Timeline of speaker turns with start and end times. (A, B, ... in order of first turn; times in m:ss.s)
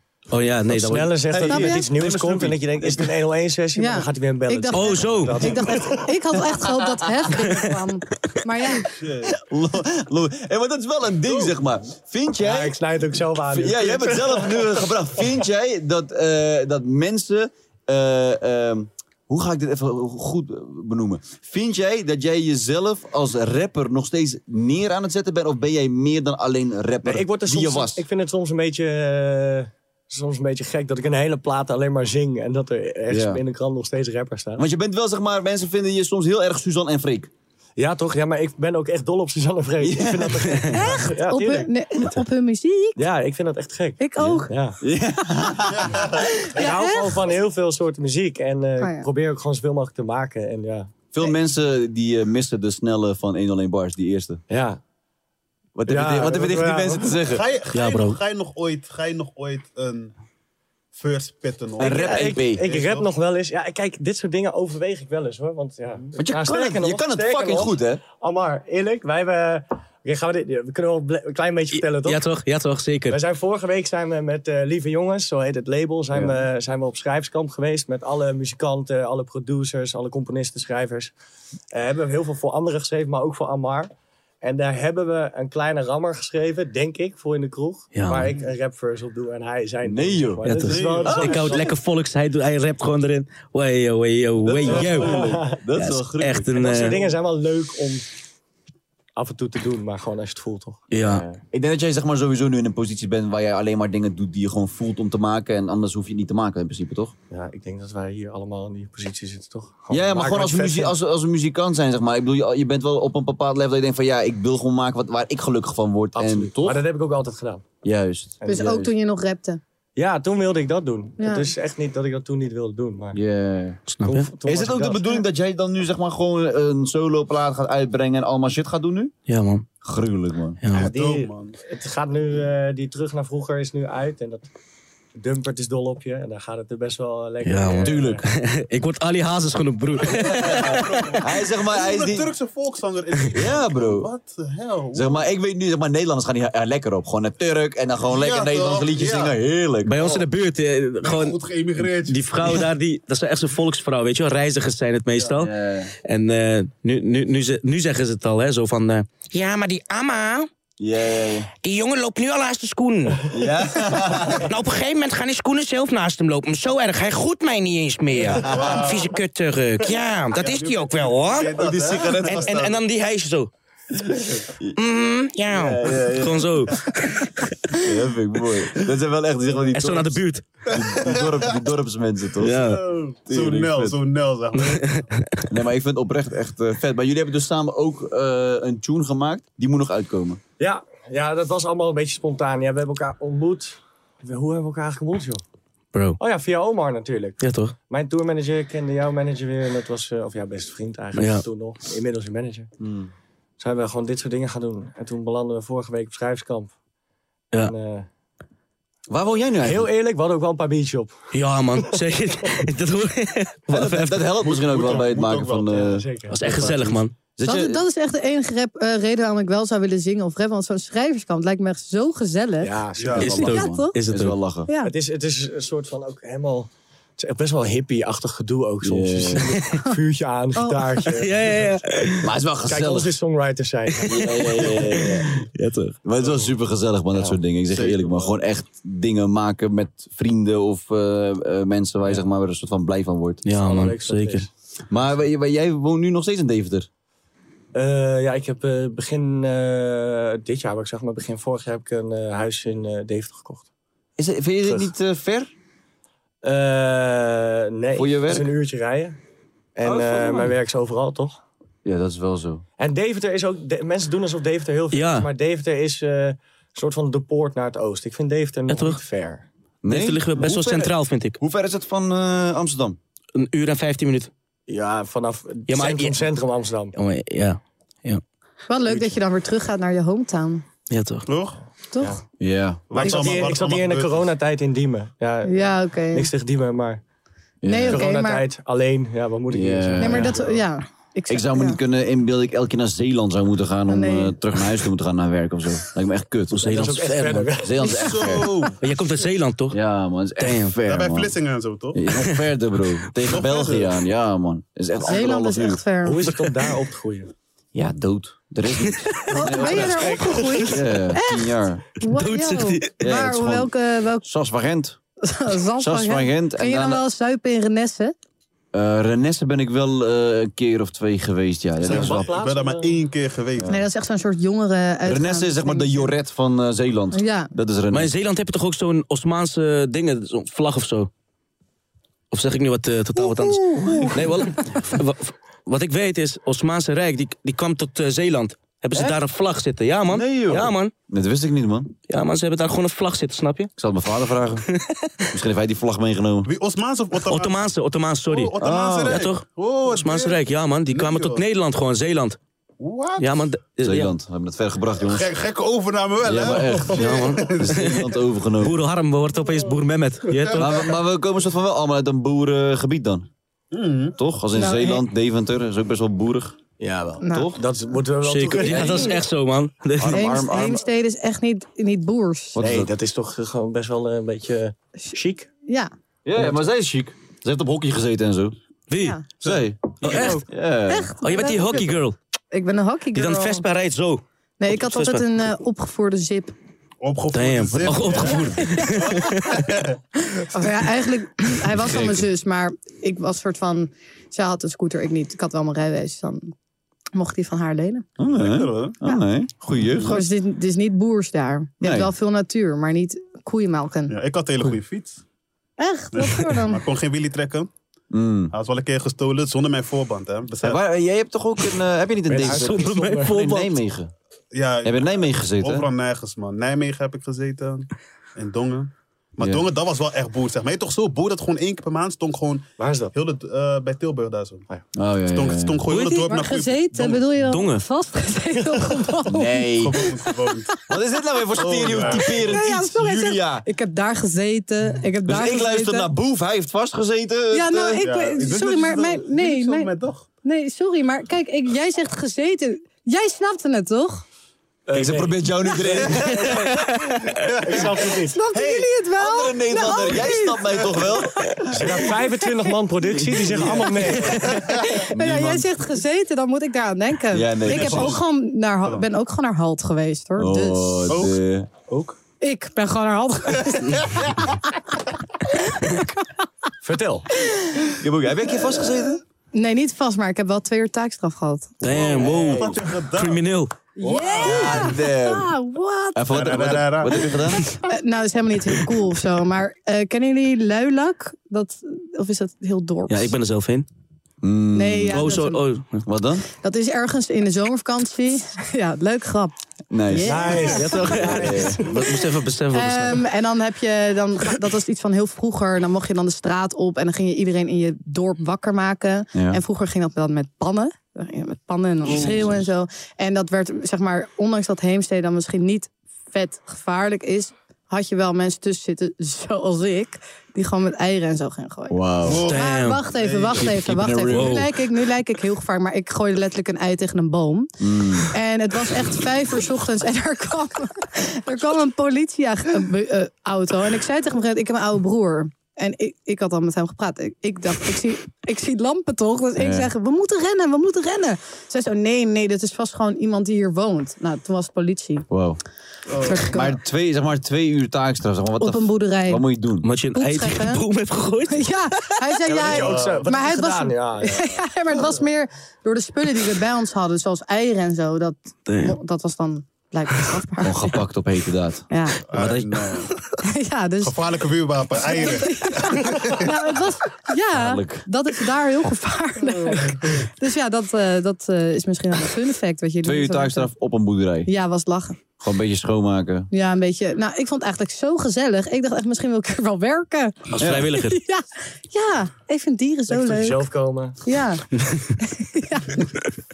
0:00.3-0:01.4 A
0:00.7-0:06.1 B
0:01.3-0:03.1 C
0:01.5-0:01.8 D
0:03.8-0:08.9 D
0:04.7-0:05.8 A
0:06.3-0:07.0 C
0:08.9-0:09.4 E
0:09.2-0:12.8 C
0:11.3-0:11.6 E
0:12.4-0:15.0 B
0:13.5-0:28.0 C
0:27.0-0:34.6 B
0:33.1-0:33.4 C
0:34.6-0:37.3 C
0:37.8-0:41.7 B
0:39.8-0:40.6 C
0:40.7-0:43.1 D
0:43.0-0:44.8 B
0:44.0-0:44.5 D
0:44.2-0:46.3 C
0:45.7-0:46.3 E
0:46.5-0:50.9 B
0:46.5-0:47.2 D
0:48.8-0:49.1 D
0:51.1-0:54.4 C
0:54.5-0:54.8 B
0:55.8-0:57.4 C
0:55.9-0:57.2 B
0:57.2-1:00.1 E
0:57.7-0:58.2 A
1:01.0-1:03.1 E
1:01.8-1:02.6 C
1:01.8-1:12.2 B
1:06.2-1:08.0 C
1:11.7-1:13.2 A
1:13.1-1:21.1 B
1:21.7-1:31.7 B
1:27.9-1:28.3 A
1:29.8-1:30.5 C
1:30.4-1:37.0 A
1:30.7-1:31.6 E
1:31.0-1:31.6 C
1:34.4-1:36.8 C
1:34.7-1:35.6 B
1:36.5-1:38.1 B
1:39.2-1:41.4 B
1:40.9-1:41.3 A
1:41.4-1:47.2 C
1:47.3-1:51.0 B
1:49.9-1:56.8 C
1:56.2-1:57.6 B
1:57.8-1:58.9 C
1:58.4-1:58.9 B
1:58.4-1:59.6 D
2:00.0-2:03.2 B
2:01.2-2:01.5 D
2:03.1-2:03.8 C
2:03.9-2:04.3 A
2:04.0-2:05.2 B
2:04.4-2:09.1 C
2:09.3-2:09.7 A
2:09.8-2:10.6 C
2:10.6-2:11.0 A
2:10.7-2:11.6 E
2:10.8-2:14.5 B
2:15.2-2:18.2 B
2:17.4-2:21.3 A
2:17.8-2:18.2 C
2:20.0-2:25.3 E
2:20.3-2:22.3 C
2:23.3-2:24.1 C
2:24.9-2:30.2 C
2:28.1-2:29.4 E
2:29.9-2:35.5 A
2:31.0-2:32.6 E
2:35.3-2:35.9 C
2:36.0-2:40.5 A
2:40.8-2:41.5 C
2:41.6-2:43.2 A
2:43.3-2:44.5 C
2:44.4-2:53.5 A
2:48.4-2:48.9 C
2:48.4-2:49.2 E
2:50.3-2:52.8 E
2:51.5-2:52.6 C
2:53.9-2:54.8 C
2:54.8-2:57.5 A
2:55.5-2:56.8 C
2:57.7-3:02.8 C
2:59.7-3:00.4 A
3:00.7-3:01.5 E
3:02.4-3:02.8 A
3:02.4-3:05.1 E
3:03.3-3:04.0 C
3:04.6-3:05.4 A
3:05.5-3:10.4 C
3:10.6-3:15.4 B
3:16.2-3:22.7 B
3:17.4-3:17.7 A
3:21.2-3:21.5 A
3:22.8-3:23.1 C
3:23.6-3:26.7 B
3:27.6-3:28.1 B
3:29.1-3:29.9 C
3:29.6-3:31.3 B
3:31.3-3:34.3 A
3:33.7-3:36.1 C
3:34.4-3:36.0 E
3:35.8-3:37.0 B
3:36.3-3:37.1 A
3:37.4-3:37.8 C
3:37.4-3:44.0 D
3:42.6-3:43.4 B
3:43.0-3:43.3 E
3:43.2-3:44.4 A
3:43.2-3:44.7 C
3:44.7-3:44.9 D
3:44.8-3:51.8 B
3:48.8-3:49.5 C
3:50.6-3:51.0 D
3:51.0-3:52.3 A
3:52.2-3:53.1 C
3:52.6-3:55.1 B
3:54.0-4:03.4 C
3:54.7-3:55.9 A
3:57.7-3:58.3 E
4:03.4-4:04.5 A
4:03.5-4:04.5 B
4:04.9-4:06.9 C
4:07.7-4:13.7 B
4:14.2-4:15.5 C
4:14.6-4:14.9 B
4:16.4-4:19.2 B
4:17.9-4:18.5 C
4:19.8-4:21.4 B
4:19.8-4:20.5 C
4:21.8-4:22.6 C
4:22.8-4:29.5 B
4:24.9-4:25.3 A
4:28.7-4:29.0 A
4:29.8-4:33.0 C
4:29.9-4:31.4 A
4:33.4-4:34.3 A
4:34.7-4:37.0 B
4:35.7-4:36.3 A
4:37.0-4:38.2 A
4:38.7-4:40.6 D
4:38.9-4:39.1 B
4:40.9-4:41.3 A
4:41.3-4:41.6 E
4:41.9-4:42.2 D
4:42.4-4:42.9 C
4:42.9-4:44.3 E
4:43.0-4:47.0 B
4:43.0-4:43.3 D
4:45.4-4:46.3 D
4:47.6-4:48.0 C
4:47.6-4:48.5 D
4:47.9-4:50.6 B
4:49.5-4:50.4 C
4:50.0-4:51.8 D
4:51.3-4:58.7 C
4:53.9-4:54.4 D
4:56.5-4:57.6 A
4:56.7-4:57.9 B
4:57.8-4:58.5 D
4:57.8-4:58.8 E
4:58.8-4:59.8 A
4:59.7-5:01.3 C
5:00.4-5:00.8 A
5:00.9-5:02.0 E
5:01.9-5:05.8 C
5:03.2-5:03.9 E
5:05.1-5:06.2 D
5:06.0-5:07.3 B
5:07.7-5:11.8 C
5:08.9-5:09.1 A
5:09.3-5:14.2 D
5:09.4-5:10.7 B
5:12.1-5:12.9 A
5:13.0-5:15.0 C
5:15.2-5:18.2 D
5:15.8-5:17.0 C
5:18.7-5:22.3 C
5:21.8-5:23.0 B
5:21.9-5:23.8 E
5:23.6-5:23.8 C
5:23.7-5:26.1 D
5:25.0-5:28.1 C
5:27.1-5:27.5 D
5:27.9-5:31.1 A
5:32.3-5:40.9 A
5:33.4-5:34.3 C
5:38.9-5:39.2 C
5:40.1-5:42.0 C
5:42.1-5:43.7 A
5:43.8-5:44.7 C
5:44.7-5:45.3 A
5:45.3-5:46.5 C
5:46.4-5:47.6 E
5:47.2-5:52.4 A
5:48.3-5:51.4 E
5:48.6-5:49.3 C
5:52.8-5:53.3 E
5:53.2-5:54.1 A
5:53.8-5:55.3 C
5:55.0-5:58.0 E
5:56.2-5:58.8 C
5:57.0-6:00.9 A
5:59.5-5:59.7 E
6:00.3-6:00.9 E
6:00.5-6:03.3 C
6:03.7-6:04.2 E
6:04.2-6:06.6 C
6:04.5-6:05.0 D
6:06.8-6:09.2 B
6:07.2-6:07.5 D
6:07.2-6:07.6 C
6:08.2-6:10.2 A
6:08.6-6:09.1 C
6:10.0-6:10.8 C
6:10.1-6:12.6 D
6:12.6-6:12.9 C
6:12.6-6:15.5 B
6:15.7-6:15.9 D
6:16.2-6:18.6 C
6:18.9-6:19.2 A
6:19.4-6:21.2 C
6:20.0-6:20.4 A
6:20.9-6:22.0 D
6:21.2-6:22.2 A
6:22.5-6:23.6 D
6:23.2-6:25.2 A
6:24.6-6:26.5 D
6:27.0-6:30.0 E
6:27.3-6:29.7 A
6:28.2-6:29.3 D
6:30.4-6:36.5 D
6:31.6-6:32.3 C
6:37.1-6:38.1 D
6:38.2-6:40.3 C
6:38.2-6:39.0 E
6:40.0-6:44.2 D
6:41.8-6:42.1 C
6:44.1-6:45.2 E
6:45.8-6:46.8 D
6:46.1-6:47.7 E
6:48.1-6:48.5 C
6:48.5-6:50.8 E
6:50.6-6:54.1 C
6:52.3-6:53.4 B
6:52.4-6:53.7 A
6:54.5-7:04.7 E
6:54.8-6:55.9 C
6:59.4-6:59.7 C
7:02.8-7:03.1 B
7:04.9-7:05.8 C
7:05.3-7:07.3 E
7:05.9-7:06.2 A
7:05.9-7:10.9 D
7:07.4-7:07.8 A
7:09.3-7:10.1 C
7:09.8-7:10.8 E
7:10.9-7:13.7 C
7:11.6-7:16.1 D
7:11.6-7:12.6 E
7:15.2-7:18.1 C
7:17.5-7:24.2 D
7:18.0-7:20.3 E
7:24.9-7:26.9 B
7:24.9-7:27.1 C
7:27.5-7:28.0 E
7:27.6-7:28.4 B
7:28.3-7:32.7 D
7:28.5-7:32.1 C
7:31.7-7:34.5 B
7:33.2-7:34.1 C
7:34.2-7:41.2 D
7:35.0-7:35.8 C
7:37.3-7:38.2 C
7:37.7-7:38.2 E
7:40.4-7:41.7 C
7:41.1-7:41.4 E
7:41.9-7:42.2 B
7:42.4-7:44.5 D
7:43.7-7:44.4 E
7:45.5-7:46.3 D
7:46.8-7:47.3 B
7:47.4-7:47.8 D
7:47.9-7:49.2 C
7:49.5-7:51.7 D
7:51.8-7:53.7 A
7:51.9-7:53.4 E
7:51.9-7:52.8 C
7:54.0-7:56.2 D
7:54.0-7:54.9 E
7:54.4-7:55.5 C
7:56.1-7:57.7 C
7:56.3-7:57.7 E
7:57.8-8:03.3 D
8:03.1-8:03.9 A
8:04.4-8:05.3 C
8:04.7-8:05.6 D
8:05.1-8:06.0 A
8:06.0-8:06.4 C
8:06.6-8:37.7 D
8:09.9-8:11.8 C
8:10.2-8:11.8 B
8:10.7-8:13.2 A
8:19.3-8:19.6 C
8:22.1-8:22.6 C
8:22.1-8:22.5 E
8:31.9-8:32.4 C
8:32.2-8:33.7 E
8:32.5-8:33.0 A
8:33.6-8:34.7 C
8:34.3-8:34.7 A
8:37.8-8:38.3 C
8:38.3-8:55.3 D
8:49.6-8:49.9 C
8:55.3-8:55.6 C
8:56.1-8:56.5 E
8:56.2-8:56.8 D
8:56.5-8:59.9 C
8:58.6-8:59.4 D
8:59.8-9:02.1 A
9:00.1-9:00.8 D
9:01.5-9:11.0 D
9:02.5-9:04.6 B
9:02.5-9:03.3 E
9:08.7-9:09.0 A
9:10.6-9:11.8 C
9:11.9-9:12.2 D
9:12.3-9:13.1 E
9:12.3-9:13.2 A
9:13.4-9:14.2 D
9:14.0-9:16.8 E
9:15.1-9:23.7 D
9:17.5-9:18.0 C
9:23.0-9:24.5 C
9:24.5-9:25.2 D
9:25.4-9:26.5 C
9:26.5-9:33.6 D
9:30.5-9:31.2 A
9:30.6-9:30.9 C
9:33.1-9:34.2 B
9:34.2-9:34.6 D
9:35.2-9:36.1 D